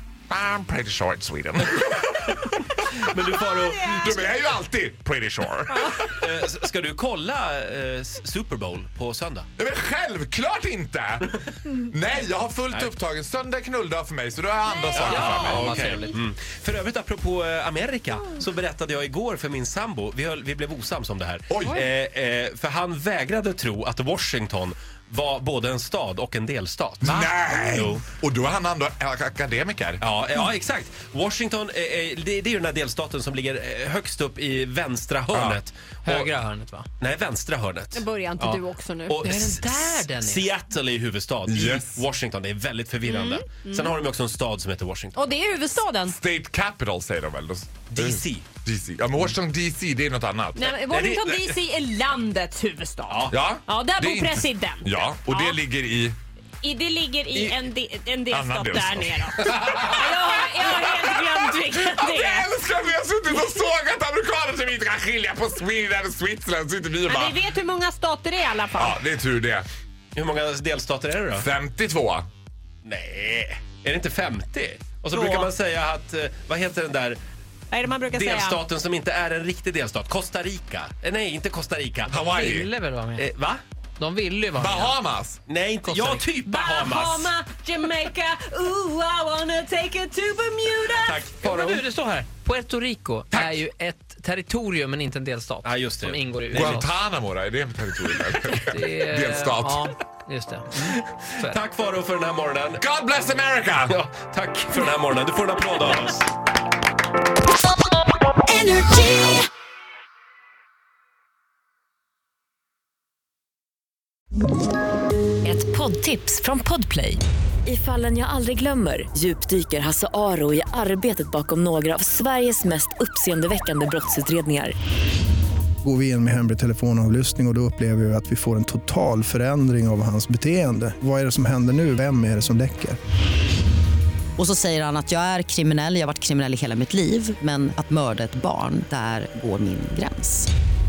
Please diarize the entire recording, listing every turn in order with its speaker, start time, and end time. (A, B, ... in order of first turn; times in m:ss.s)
0:00.3-0:06.2 A
0:02.9-0:04.2 B
0:05.8-0:09.5 B
0:09.6-0:15.8 A
0:14.7-0:16.1 C
0:14.9-0:28.0 B
0:15.0-0:16.2 D
0:21.5-0:21.8 A
0:27.0-0:30.0 A
0:30.0-0:36.3 B
0:35.3-0:35.6 A
0:36.0-0:36.9 D
0:37.0-0:45.2 B
0:37.9-0:39.2 C
0:39.2-0:40.5 D
0:41.5-0:42.0 A
0:43.0-0:43.9 C
0:45.2-0:46.2 C
0:46.0-0:50.6 A
0:47.9-0:48.5 B
0:50.6-0:55.6 C
0:50.6-0:51.6 B
0:53.1-0:53.4 B
0:53.3-0:56.2 A
0:56.6-1:02.5 C
0:58.3-1:07.4 A
1:07.1-1:09.0 C
1:08.8-1:09.7 A
1:10.2-1:11.5 B
1:11.3-1:12.2 A
1:12.8-1:17.2 B
1:15.2-1:15.4 C
1:17.7-1:18.6 C
1:18.1-1:22.1 B
1:22.1-1:22.7 A
1:22.1-1:23.3 D
1:23.2-1:23.6 B
1:24.0-1:25.0 D
1:24.6-1:25.4 A
1:25.5-1:27.3 B
1:25.8-1:26.3 D
1:26.5-1:31.2 C
1:31.0-1:31.8 B
1:31.4-1:37.0 D
1:35.6-1:36.8 B
1:36.5-1:39.9 A
1:38.3-1:41.6 D
1:40.7-1:42.8 B
1:42.8-1:44.0 A
1:43.9-1:46.3 B
1:48.5-1:49.4 E
1:55.4-2:04.7 E
2:05.8-2:13.0 F
2:14.4-2:20.5 G